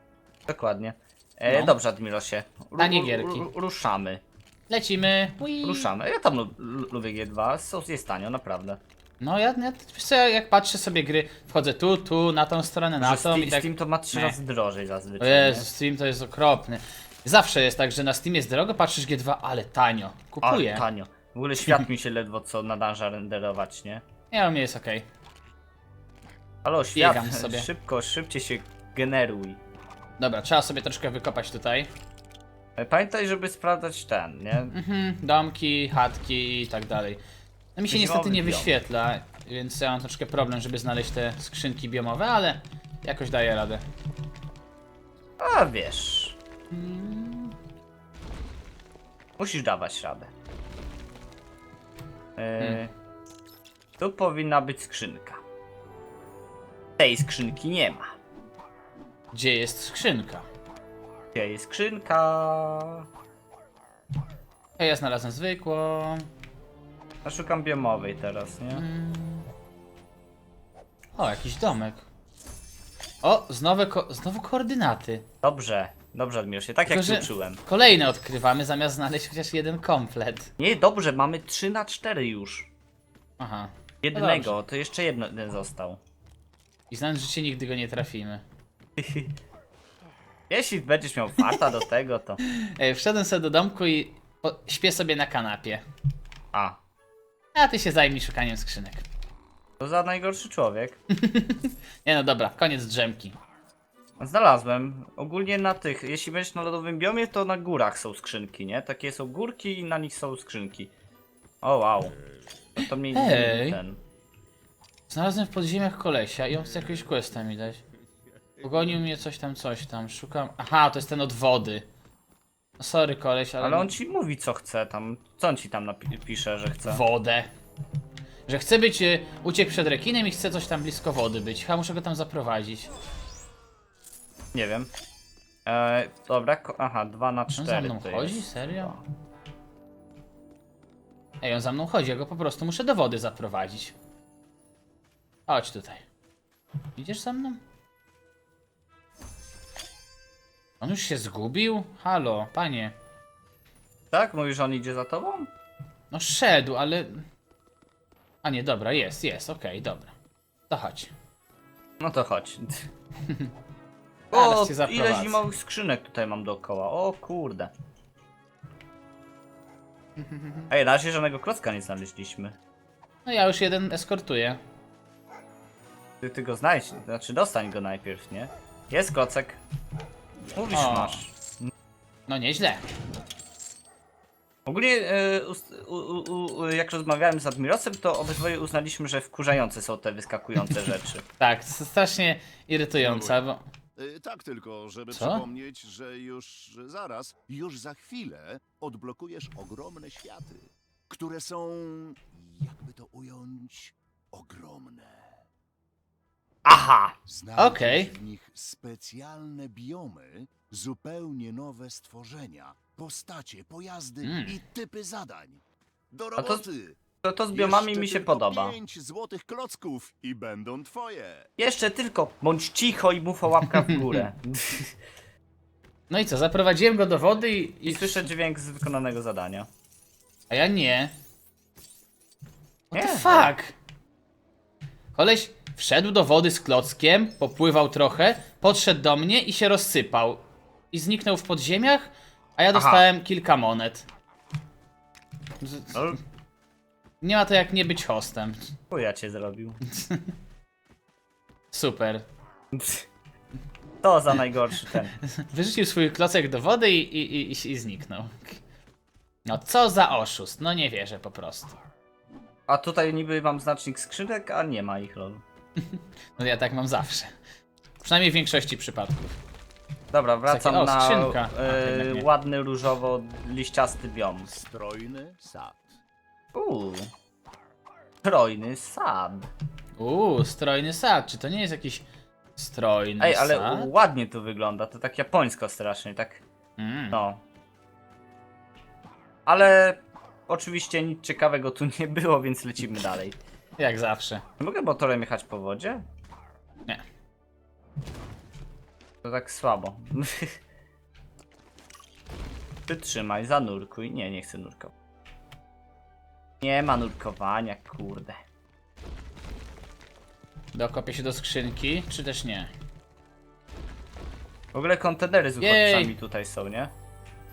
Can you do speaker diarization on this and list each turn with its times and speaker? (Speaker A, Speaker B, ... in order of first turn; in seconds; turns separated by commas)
Speaker A: 0.5-4.2, Speaker B: 1.5-1.7, Speaker B: 2.8-3.5, Speaker B: 4.7-5.9, Speaker A: 5.6-8.8, Speaker B: 9.2-14.4, Speaker A: 13.0-15.7, Speaker B: 15.2-20.8, Speaker A: 20.4-24.0, Speaker B: 24.3-25.1, Speaker A: 26.6-29.6, Speaker B: 27.0-27.7, Speaker B: 30.2-31.9, Speaker A: 32.8-34.7, Speaker B: 34.7-37.2, Speaker B: 37.8-43.8, Speaker A: 37.9-38.8, Speaker A: 45.4-46.4, Speaker B: 46.7-47.5, Speaker A: 49.4-50.3, Speaker A: 52.4-52.9, Speaker A: 54.0-55.4, Speaker A: 57.0-58.1, Speaker B: 59.3-60.5, Speaker A: 61.4-63.1, Speaker B: 64.8-66.3, Speaker A: 67.2-68.8, Speaker B: 68.7-69.5, Speaker B: 71.2-72.0, Speaker B: 73.2-75.3, Speaker A: 75.4-77.6, Speaker B: 76.9-80.5, Speaker A: 80.6-82.7, Speaker B: 83.4-84.5, Speaker A: 84.0-86.0, Speaker B: 86.9-88.4, Speaker A: 89.0-89.3, Speaker A: 90.5-92.4, Speaker B: 92.5-95.8, Speaker A: 96.5-96.8, Speaker B: 97.5-99.0, Speaker A: 99.8-101.0, Speaker B: 101.1-103.4, Speaker A: 104.2-110.9, Speaker A: 111.6-112.1, Speaker A: 112.8-114.0, Speaker B: 113.1-113.8, Speaker B: 115.1-117.8, Speaker B: 118.6-121.9, Speaker B: 122.8-123.9, Speaker A: 123.6-127.0, Speaker B: 126.9-127.5, Speaker B: 128.5-132.9, Speaker A: 134.5-134.9, Speaker A: 135.7-139.0, Speaker B: 137.5-138.9, Speaker B: 141.4-143.9, Speaker B: 145.5-146.0, Speaker B: 147.0-147.6, Speaker B: 150.8-152.9, Speaker A: 154.1-155.5, Speaker B: 156.1-157.2, Speaker B: 158.4-160.1, Speaker B: 160.7-161.1, Speaker A: 162.0-162.9, Speaker B: 164.3-165.4, Speaker A: 164.3-167.7, Speaker B: 170.2-170.7, Speaker A: 170.7-172.6, Speaker B: 173.3-174.6, Speaker A: 176.2-179.6, Speaker A: 180.6-181.7, Speaker B: 180.7-181.2, Speaker B: 182.3-182.8, Speaker A: 184.7-191.2, Speaker B: 191.4-193.6, Speaker C: 193.0-193.4, Speaker C: 194.0-205.3, Speaker B: 195.1-195.4, Speaker A: 206.7-207.2, Speaker C: 207.3-217.0, Speaker B: 207.6-208.1, Speaker B: 214.2-214.6, Speaker A: 216.4-216.6, Speaker A: 217.2-218.8, Speaker C: 217.5-221.5, Speaker A: 221.6-224.9, Speaker B: 226.1-228.3, Speaker A: 227.8-229.7, Speaker B: 230.5-231.1, Speaker A: 232.9-233.5, Speaker B: 232.9-233.7, Speaker B: 235.2-244.1, Speaker A: 242.7-243.1, Speaker B: 245.6-246.1, Speaker A: 245.9-246.2, Speaker B: 247.2-248.7, Speaker A: 248.9-249.8, Speaker B: 249.9-250.3, Speaker B: 251.7-252.3, Speaker A: 252.7-253.1, Speaker A: 254.0-255.2, Speaker B: 255.3-258.6, Speaker B: 259.5-261.8, Speaker A: 262.7-265.4, Speaker B: 265.8-267.3, Speaker B: 268.0-269.4, Speaker A: 270.1-274.5, Speaker B: 270.5-272.3, Speaker C: 274.5-276.0, Speaker A: 276.5-277.1, Speaker A: 278.2-279.5, Speaker B: 280.0-282.1, Speaker B: 282.6-283.9, Speaker A: 283.2-286.4, Speaker B: 286.8-287.2, Speaker A: 287.1-287.4, Speaker A: 289.5-293.4, Speaker B: 293.8-294.4, Speaker A: 294.6-296.0, Speaker A: 299.2-300.6, Speaker A: 302.9-304.9, Speaker A: 306.6-308.4, Speaker B: 310.7-312.7, Speaker A: 314.7-316.9, Speaker B: 315.6-316.1